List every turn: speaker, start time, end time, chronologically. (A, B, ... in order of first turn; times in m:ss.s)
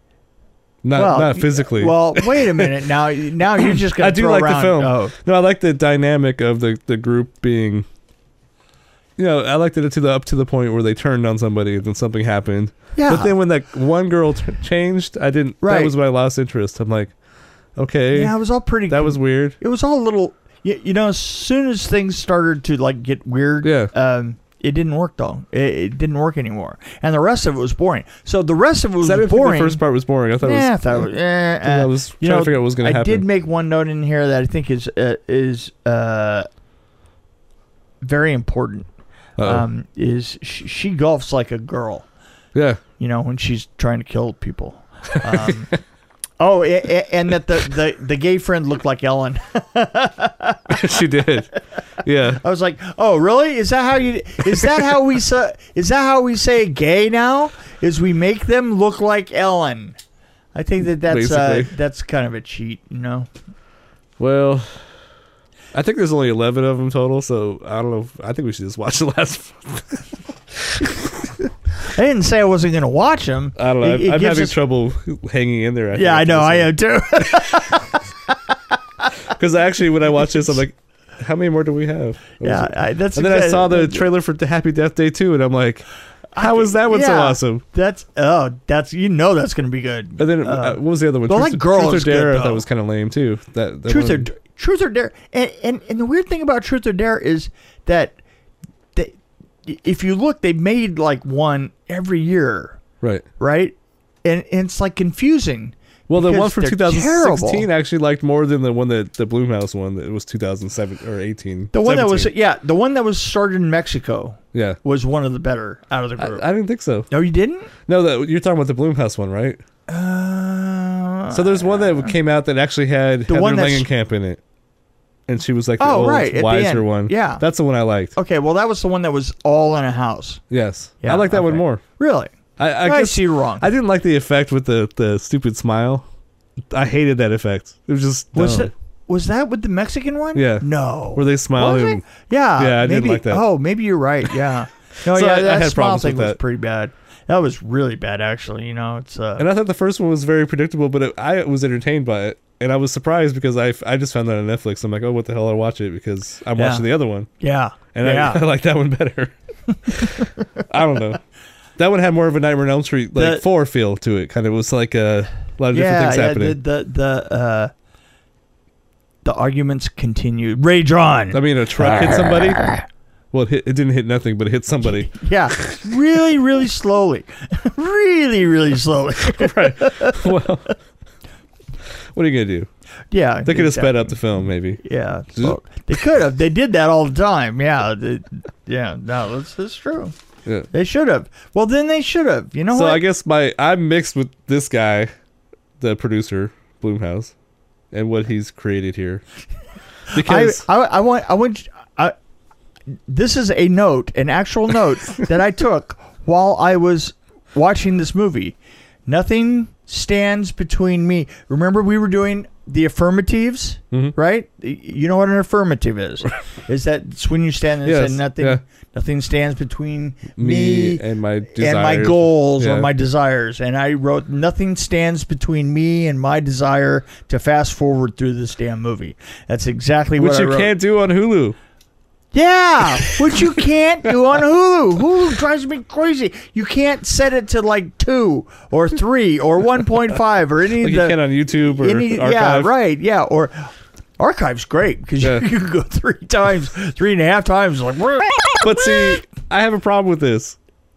0:00.8-0:02.8 A
0:00.9-0:05.1 B
0:03.6-0:07.8 A
0:09.2-0:17.1 A
0:12.9-0:13.3 B
0:15.6-0:15.9 B
0:17.8-0:18.3 A
0:18.1-0:29.8 B
0:18.9-0:19.6 A
0:23.6-0:23.9 A
0:29.0-0:31.1 A
0:30.4-0:36.4 B
0:31.6-0:33.2 A
0:38.0-0:38.9 B
0:39.4-0:39.6 A
0:39.4-0:42.1 B
0:42.5-0:42.8 A
0:43.0-0:45.8 B
0:46.4-0:51.6 B
0:50.7-0:51.5 A
0:52.0-0:52.4 A
0:52.2-1:00.0 B
1:00.5-1:03.3 B
1:01.1-1:01.7 A
1:04.2-1:04.8 A
1:05.7-1:10.0 A
1:10.6-1:11.3 A
1:11.9-1:14.5 B
1:13.6-1:16.7 A
1:15.9-1:18.0 B
1:17.2-1:17.6 A
1:19.3-1:25.8 A
1:22.4-1:24.1 B
1:26.3-1:32.6 B
1:26.4-1:27.6 A
1:30.2-1:34.3 A
1:33.9-1:38.2 B
1:38.9-1:42.8 B
1:43.4-1:47.6 B
1:46.1-1:52.3 A
1:51.7-1:56.4 B
1:54.5-1:54.8 A
1:56.2-1:57.1 A
1:57.1-1:57.7 B
1:57.9-1:59.6 A
1:59.9-2:02.1 B
2:01.3-2:04.4 A
2:03.3-2:03.9 B
2:05.3-2:08.1 A
2:05.8-2:07.4 B
2:08.1-2:10.4 B
2:10.5-2:11.8 A
2:11.0-2:13.7 B
2:12.6-2:16.0 A
2:16.7-2:18.7 A
2:18.3-2:29.4 B
2:20.3-2:23.4 A
2:25.1-2:26.4 A
2:29.4-2:37.3 A
2:36.5-2:36.9 B
2:37.4-2:38.4 B
2:37.9-2:41.2 A
2:40.0-2:40.3 B
2:41.8-2:46.6 A
2:43.2-2:43.4 B
2:45.7-2:47.7 B
2:49.2-2:51.4 B
2:51.3-2:52.7 A
2:53.3-2:55.8 A
2:54.9-3:00.4 B
2:59.2-3:00.7 A
3:02.1-3:02.7 A
3:03.1-3:04.2 B
3:03.4-3:04.8 A
3:04.8-3:10.1 B
3:10.7-3:13.0 B
3:12.7-3:15.1 A
3:15.8-3:17.3 A
3:17.9-3:19.2 A
3:20.1-3:20.6 A
3:20.1-3:22.1 B
3:23.1-3:50.7 B
3:37.8-3:38.6 A
3:40.4-3:42.9 A
3:50.2-3:51.6 A
3:52.3-4:09.1 B
3:53.0-3:53.4 A
4:00.8-4:02.7 A
4:08.6-4:10.6 A